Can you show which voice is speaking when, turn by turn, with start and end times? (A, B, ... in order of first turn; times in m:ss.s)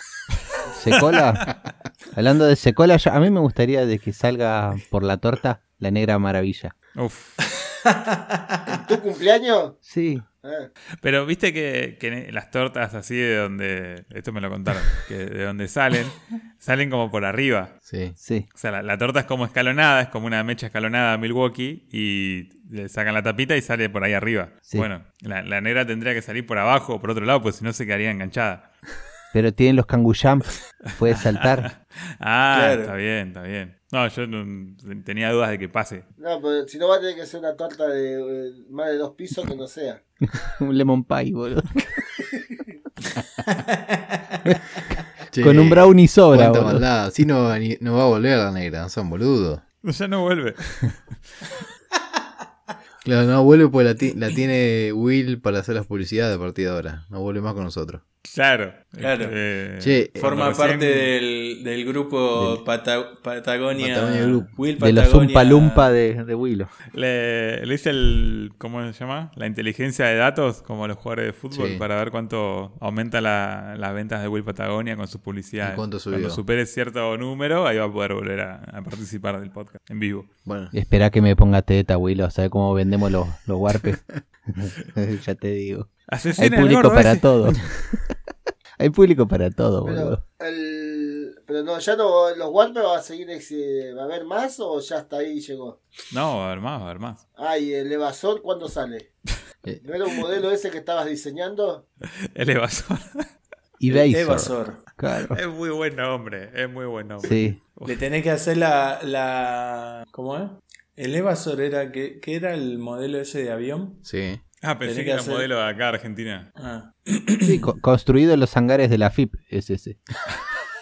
0:00.7-0:01.4 A
0:02.1-0:06.7 A
0:06.9-0:07.4 B
0:07.9-0:08.6 C
0:08.7-0:09.8 D
0:09.8-0:10.2 A
0:10.4-0:10.7 D
0:11.0-0:17.7 B
0:17.8-0:18.2 E
0:18.2-0:18.4 A
0:18.5-0:28.7 B
0:29.3-0:31.7 A
0:31.1-0:36.0 B
0:32.5-0:32.9 C
0:36.2-0:40.0 D
0:40.4-0:41.9 A
0:43.5-0:44.4 C
0:45.3-0:49.6 E
0:45.4-0:46.8 A
0:49.8-0:51.0 B
0:53.0-0:58.0 E
0:58.2-1:01.1 B
0:59.0-0:59.3 C
0:59.8-1:00.5 E
1:00.2-1:05.9 C
1:02.4-1:02.6 A
1:03.8-1:04.5 E
1:04.8-1:06.7 A
1:06.9-1:20.3 B
1:11.5-1:11.8 E
1:15.6-1:16.4 E
1:20.4-1:20.7 E
1:20.7-1:27.7 A
1:26.1-1:27.3 B
1:28.8-1:30.2 A
1:29.8-1:35.8 D
1:36.1-1:37.2 B
1:37.4-1:39.1 D
1:39.8-1:41.8 D
1:42.3-1:43.2 B
1:43.8-1:45.4 A
1:43.9-1:44.8 C
1:45.3-1:48.0 B
1:47.2-1:47.6 A
1:47.8-1:54.0 C
1:54.0-1:54.4 E
1:54.6-1:56.5 B
1:54.8-1:55.5 C
1:56.6-1:57.6 C
1:57.4-2:00.0 A